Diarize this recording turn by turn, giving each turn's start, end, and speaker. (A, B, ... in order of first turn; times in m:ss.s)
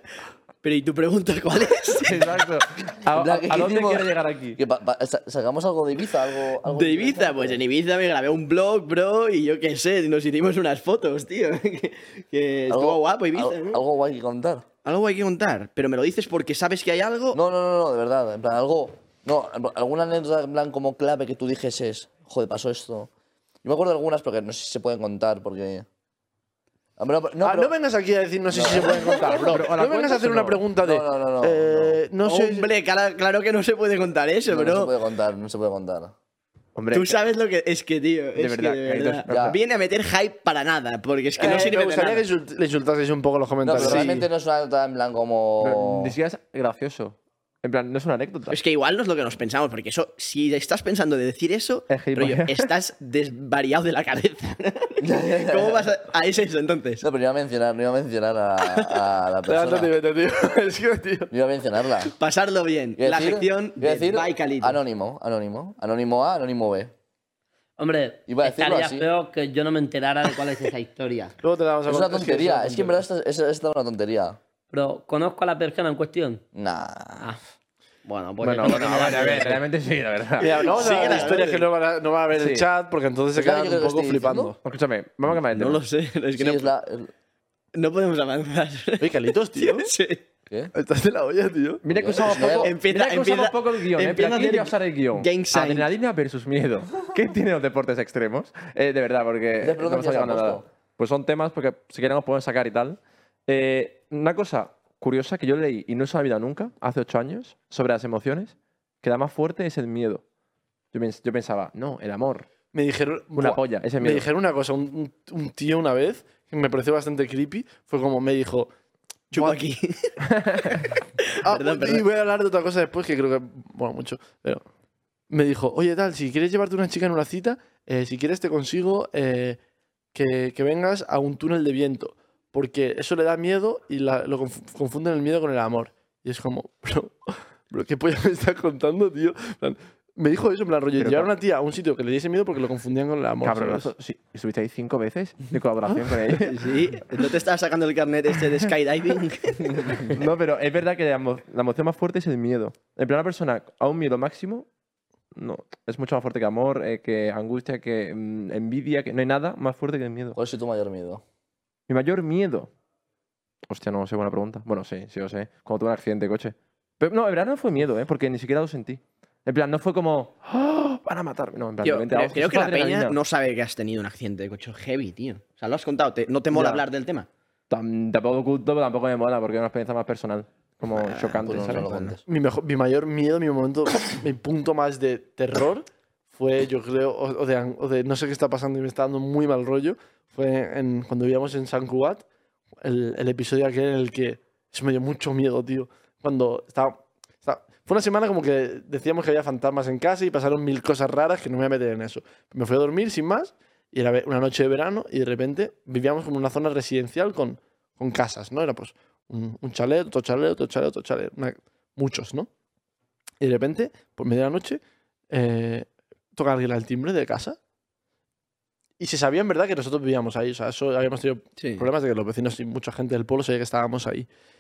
0:00.6-0:02.4 A
0:02.0-0:04.6 B
0:03.1-0:07.6 C
0:06.6-0:13.8 A
0:12.7-0:14.6 C
0:14.8-0:17.4 A
0:17.3-0:23.1 C
0:23.6-0:25.9 C
0:27.0-0:27.7 C
0:27.4-0:32.7 D
0:28.5-0:29.4 C
0:29.1-0:30.6 B
0:30.8-0:32.0 C
0:32.2-0:34.9 A
0:34.5-0:36.1 C
0:36.8-0:37.2 B
0:36.9-0:42.2 A
0:38.4-0:39.6 B
0:39.3-0:39.6 C
0:41.4-0:44.3 D
0:43.6-0:46.2 C
0:43.8-0:44.3 A
0:45.6-0:48.6 B
0:48.5-0:57.0 A
0:51.9-0:52.7 B
0:55.0-0:55.9 C
0:57.0-0:59.9 C
0:59.4-1:01.3 D
1:01.3-1:02.1 C
1:02.1-1:04.8 A
1:03.0-1:06.9 C
1:07.8-1:11.3 E
1:08.3-1:09.1 C
1:11.4-1:13.0 D
1:11.9-1:14.4 C
1:14.7-1:16.4 E
1:16.5-1:17.3 C
1:18.1-1:19.6 E
1:18.4-1:20.6 B
1:20.4-1:24.6 D
1:20.4-1:21.7 A
1:22.4-1:22.7 B
1:23.4-1:24.6 C
1:24.6-1:25.8 B
1:25.3-1:26.7 A
1:26.4-1:27.1 C
1:27.7-1:30.2 A
1:29.0-1:29.9 D
1:30.7-1:31.8 D
1:31.8-1:50.2 B
1:31.9-1:32.8 C
1:32.6-1:35.9 A
1:39.6-1:40.6 C
1:50.9-1:52.5 B
1:52.7-1:58.7 D
1:53.4-1:54.3 B
1:59.3-1:59.6 D
1:59.3-2:00.1 A
2:00.4-2:00.8 B
2:01.4-2:04.6 D
2:01.4-2:02.0 A
2:05.3-2:09.6 D
2:10.1-2:23.9 D
2:21.0-2:21.3 B
2:23.4-2:26.7 B
2:26.4-2:30.1 A
2:30.1-2:34.7 B
2:35.4-2:40.4 B
2:40.4-2:41.2 C
2:41.9-2:42.7 B
2:43.7-2:53.2 B
2:51.8-2:57.3 A
2:56.5-2:56.8 B
2:57.7-3:01.9 B
3:00.9-3:02.2 A
3:01.5-3:02.2 C
3:02.3-3:12.2 D
3:12.8-3:32.5 D
3:33.4-3:37.6 D
3:39.0-3:44.3 D
3:41.6-3:41.9 A